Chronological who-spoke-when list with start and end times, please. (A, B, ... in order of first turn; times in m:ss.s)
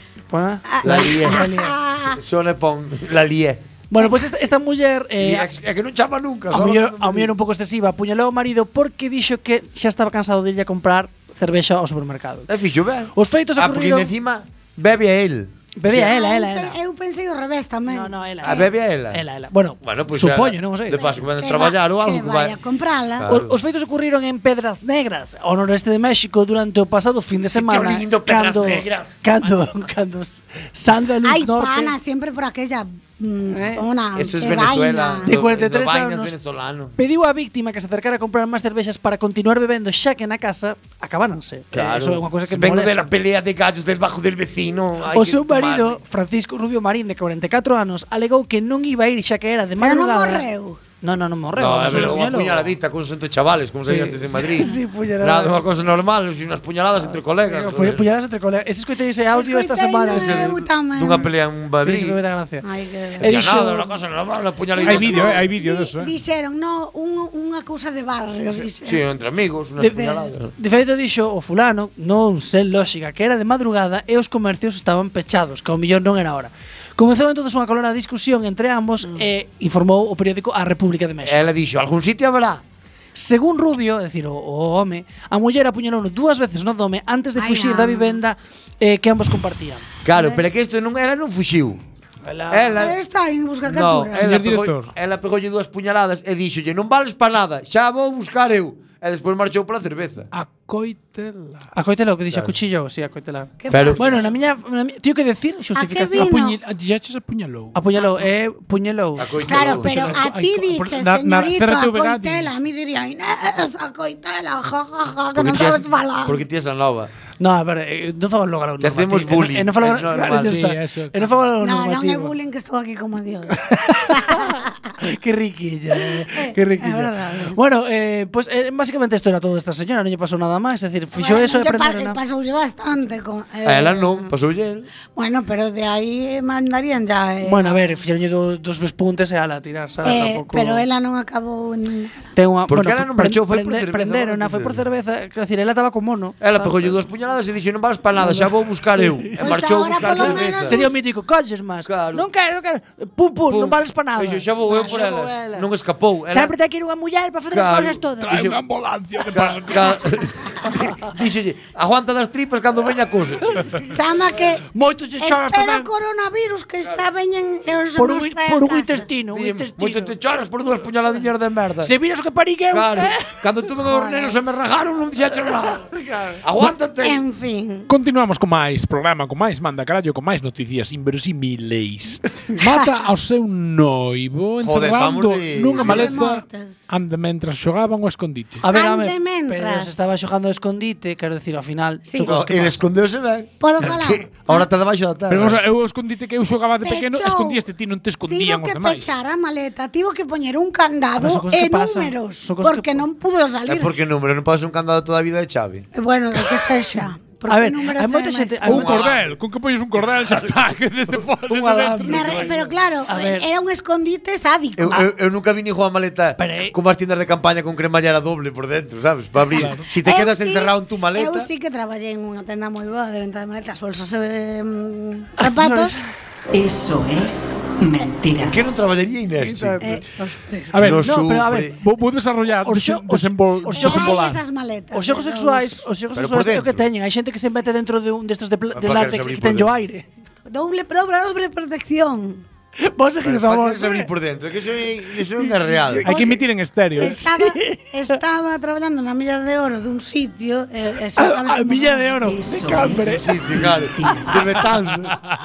0:00.3-0:01.8 A
0:00.7-0:02.2 B
0:00.8-0:01.5 C
0:02.2-0:03.6 C
0:03.9-0:05.5 A
0:05.2-0:07.3 C
0:06.5-0:12.5 A
0:12.5-0:15.5 C
0:13.1-0:14.1 A
0:15.8-0:16.8 A
0:15.9-0:18.7 B
0:17.9-0:21.1 A
0:18.4-0:19.2 C
0:19.8-0:22.6 C
0:20.9-0:23.3 B
0:23.2-0:23.6 C
0:23.3-0:31.9 A
0:27.5-0:29.2 C
0:31.2-0:35.3 B
0:33.5-0:33.8 A
0:34.1-0:37.0 C
0:35.2-0:36.3 A
0:37.0-0:43.1 A
0:41.7-0:46.0 C
0:45.1-0:50.4 A
0:49.8-0:50.8 B
0:51.0-0:52.7 A
0:51.6-0:58.1 C
0:53.9-0:55.6 A
0:57.4-1:00.5 A
0:59.3-1:01.3 B
1:00.1-1:02.2 C
1:01.8-1:02.6 A
1:02.6-1:03.3 B
1:03.2-1:03.9 A
1:03.2-1:05.4 C
1:04.7-1:09.0 B
1:04.8-1:06.1 D
1:08.8-1:10.5 C
1:09.8-1:21.4 A
1:21.2-1:22.6 C
1:23.1-1:29.9 A
1:27.4-1:28.2 B
1:30.0-1:31.8 C
1:30.1-1:30.4 B
1:32.2-1:32.9 A
1:32.5-1:33.0 C
1:32.8-1:34.2 B
1:33.6-1:40.3 C
1:34.1-1:34.9 D
1:40.3-1:41.7 D
1:41.7-1:46.3 A
1:42.3-1:42.6 C
1:43.6-1:44.2 B
1:43.7-1:44.2 C
1:45.8-1:46.6 B
1:46.2-1:48.2 D
1:47.7-1:49.4 A
1:49.2-1:49.9 C
1:49.4-1:56.4 B
1:49.9-1:52.5 D
1:55.4-1:57.1 C
1:57.4-2:02.4 A
1:58.8-2:00.6 C
2:00.4-2:01.4 D
2:01.6-2:04.9 B
2:03.9-2:04.4 A
2:05.0-2:12.2 A
2:06.0-2:07.6 B
2:11.2-2:14.3 B
2:13.6-2:14.9 C
2:15.1-2:17.8 B
2:17.4-2:20.8 A
2:20.0-2:22.2 B
2:22.4-2:27.0 A
2:22.7-2:24.8 C
2:26.4-2:30.8 C
2:28.2-2:29.4 A
2:29.4-2:30.9 B
2:29.9-2:35.6 A
2:31.9-2:32.3 C
2:33.4-2:36.5 C
2:36.3-2:38.5 A
2:37.5-2:38.6 C
2:38.2-2:40.1 D
2:39.3-2:43.6 C
2:43.9-2:44.6 B
2:44.7-2:45.9 A
2:45.2-2:49.1 B
2:48.0-2:50.1 A
2:49.3-2:51.9 C
2:51.8-2:53.3 A
2:52.7-2:55.9 C
2:53.8-2:54.4 B
2:56.0-2:56.4 A
2:56.4-2:57.2 C
2:57.0-2:57.9 B
2:57.9-3:08.6 D
3:04.6-3:06.2 C
3:05.7-3:06.8 B
3:08.6-3:12.8 A
3:08.7-3:09.9 B
3:12.0-3:12.3 B
3:12.2-3:15.6 C
3:13.6-3:14.7 B
3:15.3-3:19.1 D
3:16.8-3:17.6 B
3:18.2-3:23.9 B
3:21.2-3:23.1 A
3:23.7-3:25.9 C
3:25.9-3:28.7 B
3:27.5-3:29.0 A
3:28.6-3:29.4 C
3:28.6-3:32.7 D
3:30.2-3:30.5 C
3:31.4-3:32.5 C
3:32.1-3:35.1 B
3:33.1-3:33.5 A
3:34.8-3:41.5 C
3:36.4-3:36.7 A
3:39.6-3:39.8 D
3:39.9-3:46.0 B
3:45.4-3:46.0 A
3:46.5-3:48.6 E
3:48.4-3:49.8 C
3:49.4-3:50.3 A
3:49.8-3:50.7 B
3:50.7-3:51.2 D
3:50.7-3:51.8 C
3:51.0-3:51.7 A
3:51.8-3:54.4 D
3:52.6-3:54.2 A
3:53.7-3:55.9 B
3:54.9-4:00.1 A
3:56.1-3:56.8 C
3:58.7-3:59.7 C
4:00.5-4:02.4 B
4:02.8-4:04.1 A
4:03.2-4:06.2 C
4:05.4-4:06.4 A
4:06.0-4:07.2 D
4:07.0-4:07.8 A
4:07.0-4:12.1 B
4:11.2-4:13.5 A
4:12.2-4:13.2 E
4:13.0-4:15.2 C
4:13.7-4:14.2 E
4:14.1-4:14.5 A